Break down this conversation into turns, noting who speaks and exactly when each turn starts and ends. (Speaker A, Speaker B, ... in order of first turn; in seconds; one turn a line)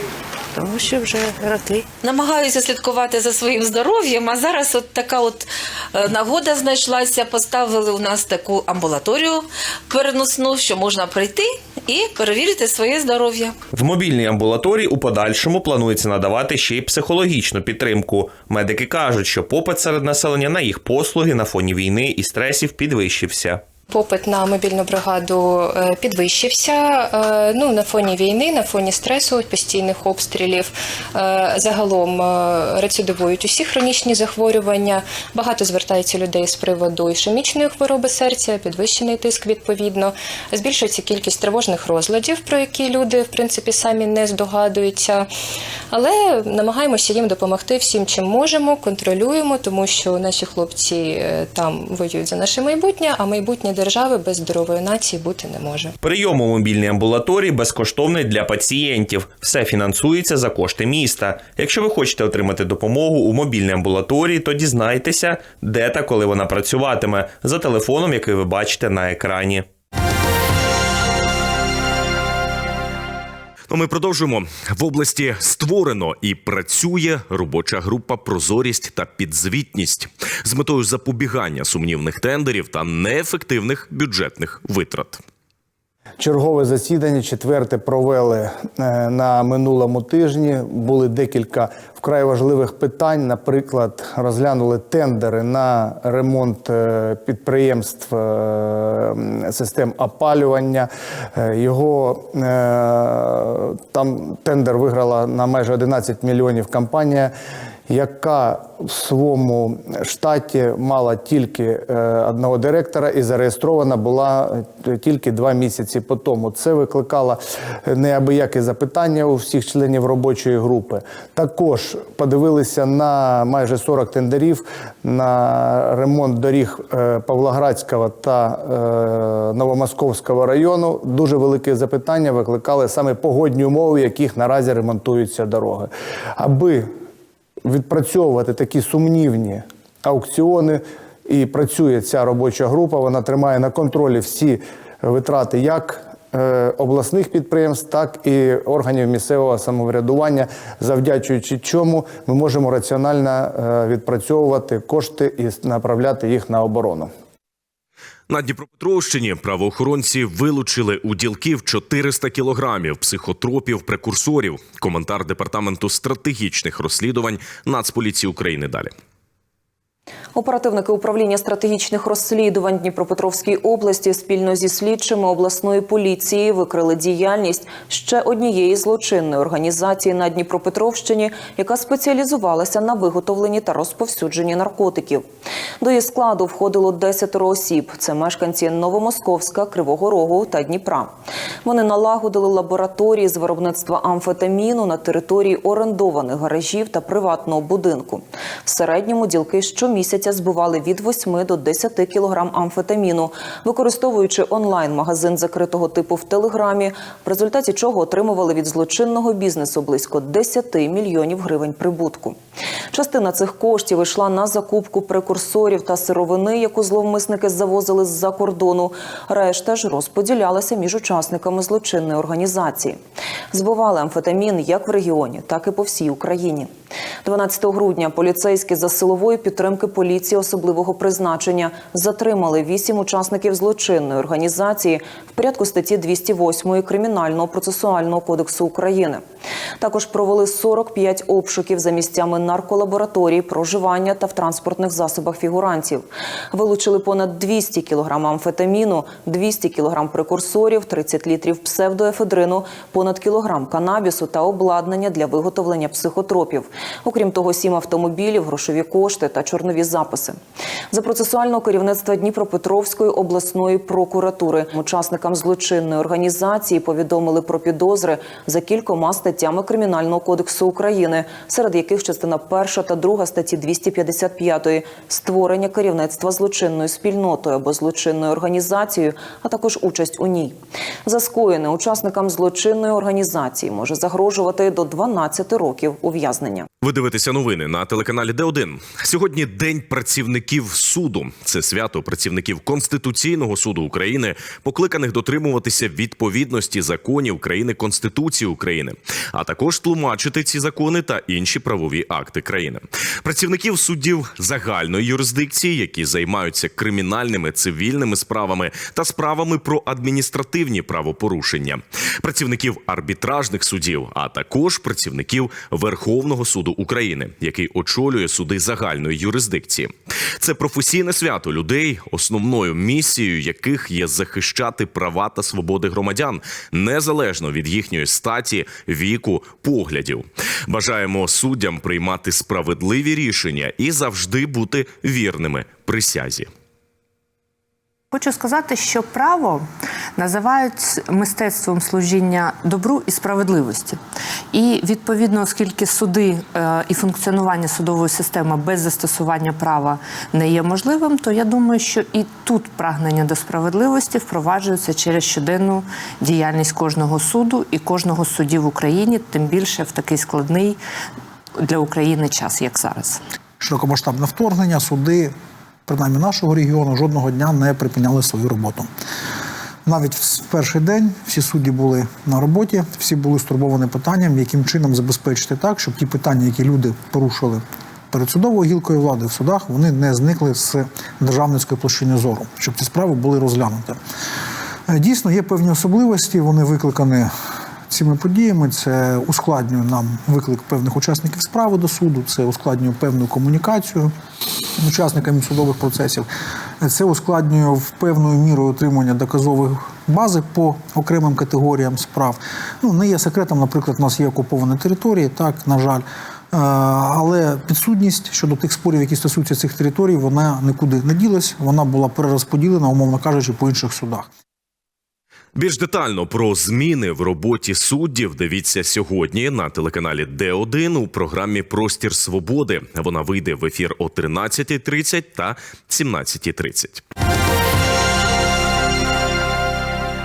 Speaker A: 0.5-1.9
Speaker B: 2.0-13.5
Speaker C: 13.7-23.6
Speaker D: 23.9-45.3
Speaker D: 45.9-55.9
Speaker C: 56.0-69.7
Speaker E: 73.7-85.2
Speaker F: 86.2-107.3
Speaker F: 107.9-136.9
Speaker F: 137.6-157.1
Speaker E: 158.3-168.9
Speaker G: 170.3-185.2
Speaker G: 185.8-191.1
Speaker G: 191.6-212.4
Speaker G: 212.9-223.0
Speaker G: 223.5-226.7
Speaker G: 227.2-239.2
Speaker G: 239.8-260.4
Speaker G: 260.9-286.7
Speaker E: 286.8-336.5
Speaker H: 338.1-339.6
Speaker H: 340.2-343.9
Speaker A: 340.4-340.9
Speaker H: 344.5-360.8
Speaker A: 352.3-352.8
Speaker A: 354.0-354.4
Speaker A: 359.9-360.7
Speaker H: 361.6-363.1
Speaker A: 362.3-363.1
Speaker I: 363.6-365.3
Speaker I: 365.9-368.9
Speaker I: 369.9-384.0
Speaker I: 384.9-387.3
Speaker I: 387.9-394.1
Speaker I: 394.8-396.3
Speaker I: 396.8-414.3
Speaker E: 415.5-427.0